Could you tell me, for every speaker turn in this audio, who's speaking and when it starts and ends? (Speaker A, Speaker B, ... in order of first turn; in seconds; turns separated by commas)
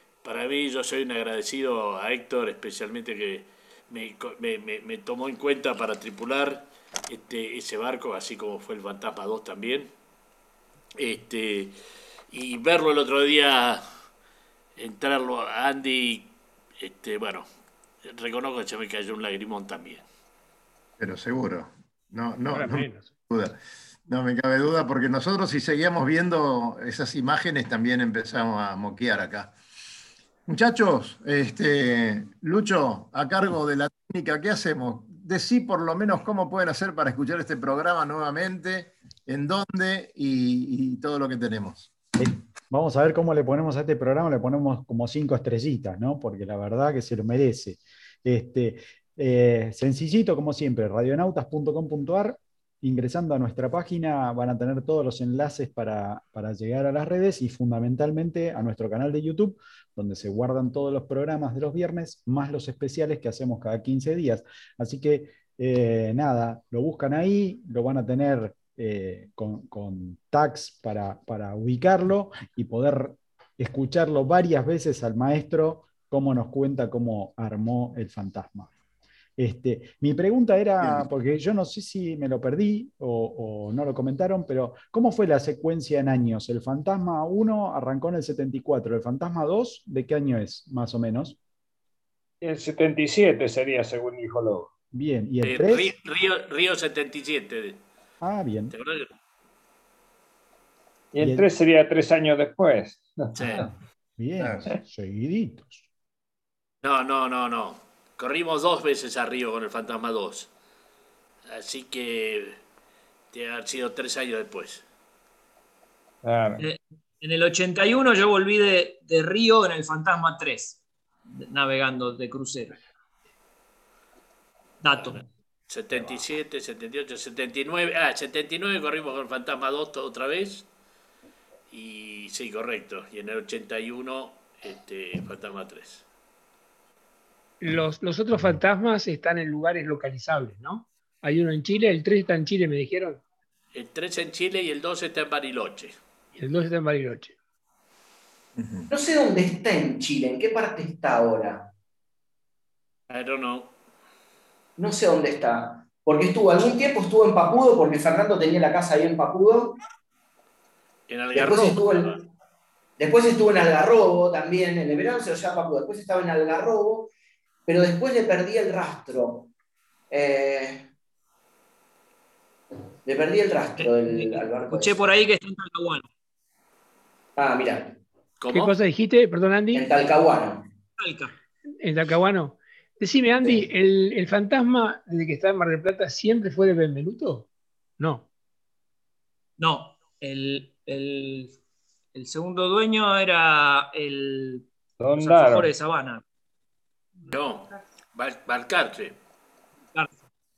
Speaker A: 0.2-9.9, Speaker A: 11.0-11.8, Speaker A: 12.3-13.8, Speaker A: 14.8-17.4, Speaker A: 18.0-20.0, Speaker B: 21.0-29.5, Speaker C: 22.5-23.1, Speaker B: 30.5-41.9, Speaker D: 42.2-78.7, Speaker D: 79.4-91.4, Speaker E: 92.4-94.7, Speaker D: 94.9-95.9, Speaker A: 95.4-97.8, Speaker D: 98.2-98.7, Speaker A: 98.7-99.1, Speaker E: 101.1-103.7, Speaker D: 101.2-101.5, Speaker A: 103.3-103.7, Speaker D: 104.2-105.8, Speaker B: 104.4-104.7, Speaker A: 106.8-110.5, Speaker A: 111.5-112.6, Speaker A: 113.3-114.8, Speaker E: 116.2-116.6, Speaker F: 116.6-122.8, Speaker F: 124.8-125.2, Speaker A: 125.0-130.7, Speaker A: 131.7-136.0, Speaker C: 137.6-143.2, Speaker A: 143.7-145.9, Speaker C: 146.4-147.3, Speaker B: 148.6-148.9, Speaker G: 148.9-151.7, Speaker A: 153.1-153.7, Speaker G: 154.8-159.8, Speaker A: 161.1-162.2, Speaker G: 161.3-162.1, Speaker G: 163.0-167.1, Speaker G: 167.7-169.5, Speaker G: 170.1-170.9, Speaker G: 173.0-175.2, Speaker F: 173.8-176.1, Speaker G: 177.3-178.0, Speaker A: 178.4-178.7, Speaker C: 178.5-179.8, Speaker G: 179.7-180.7, Speaker F: 181.0-181.3, Speaker C: 181.8-187.5, Speaker C: 188.0-188.3, Speaker F: 189.6-191.6, Speaker F: 192.1-194.7, Speaker E: 195.0-195.7, Speaker F: 195.2-196.2, Speaker A: 197.3-199.2, Speaker F: 199.9-200.2